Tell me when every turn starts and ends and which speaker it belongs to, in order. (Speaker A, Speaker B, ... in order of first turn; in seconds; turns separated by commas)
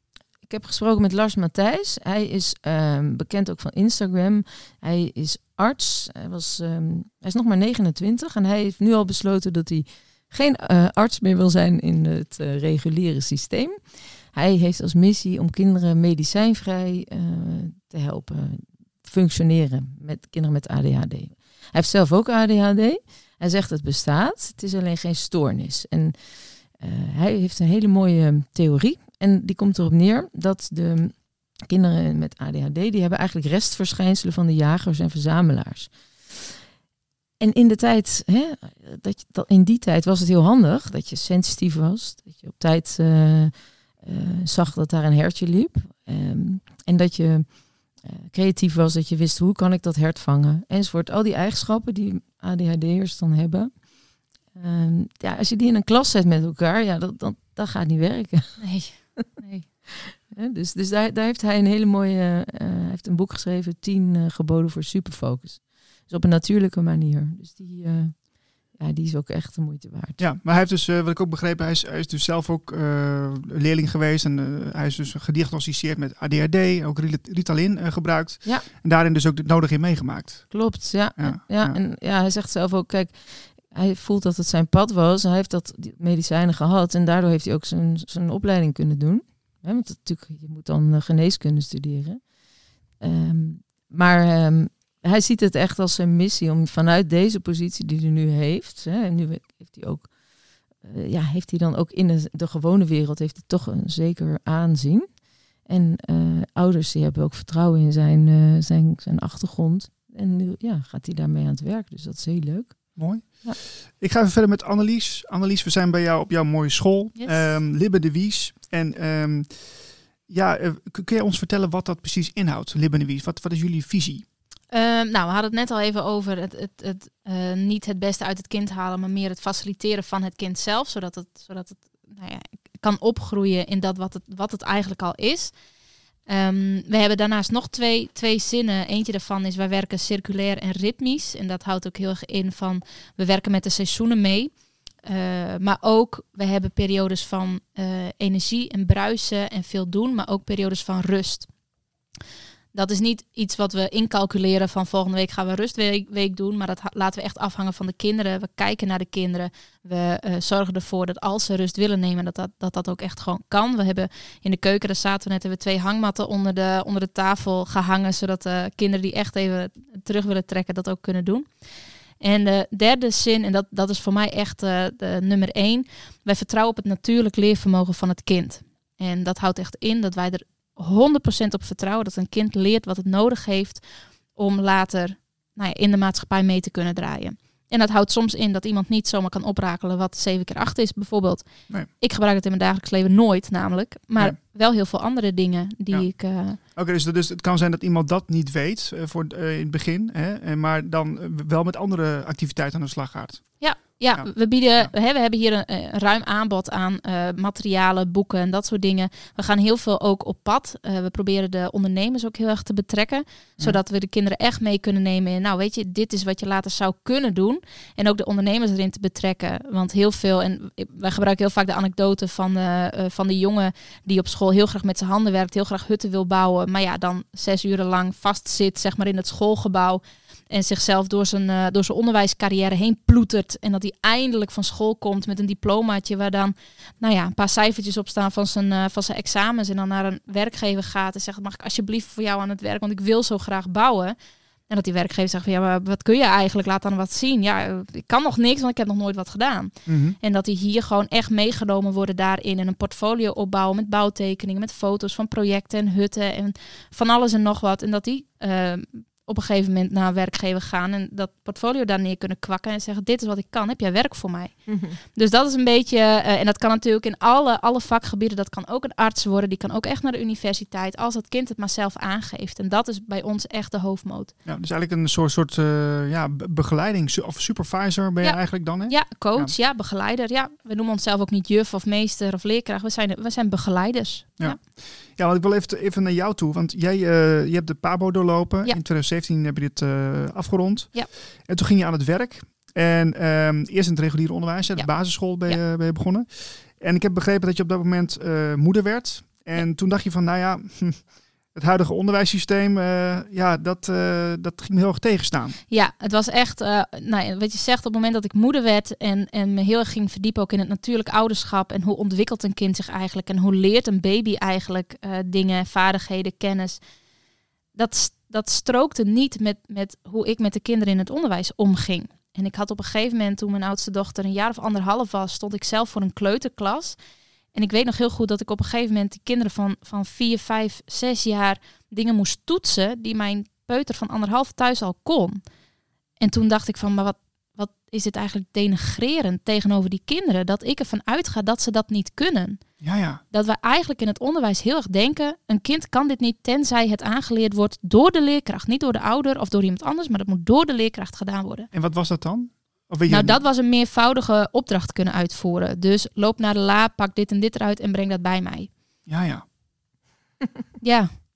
Speaker A: 0.5-36.5, Speaker A: 37.4-53.8, Speaker A: 54.5-58.7, Speaker B: 58.6-59.7, Speaker A: 60.1-70.2, Speaker C: 70.2-81.8, Speaker A: 80.5-92.2, Speaker A: 93.0-100.1, Speaker A: 100.8-105.1, Speaker A: 105.7-113.6, Speaker C: 113.0-124.2, Speaker B: 117.2-117.6, Speaker B: 124.7-135.5, Speaker B: 136.3-151.5, Speaker B: 152.7-171.5, Speaker B: 172.2-196.6, Speaker C: 195.9-204.9, Speaker B: 203.6-244.2, Speaker B: 244.7-274.3, Speaker C: 249.9-250.2, Speaker A: 264.7-265.0, Speaker C: 274.5-279.5, Speaker B: 278.2-284.6, Speaker C: 284.4-305.6, Speaker B: 305.7-316.8, Speaker B: 317.8-327.0, Speaker B: 327.5-335.4, Speaker B: 336.2-342.6, Speaker C: 342.8-343.2, Speaker B: 343.3-351.7, Speaker C: 351.7-353.4, Speaker B: 353.1-358.7, Speaker C: 359.1-359.4, Speaker B: 360.8-361.2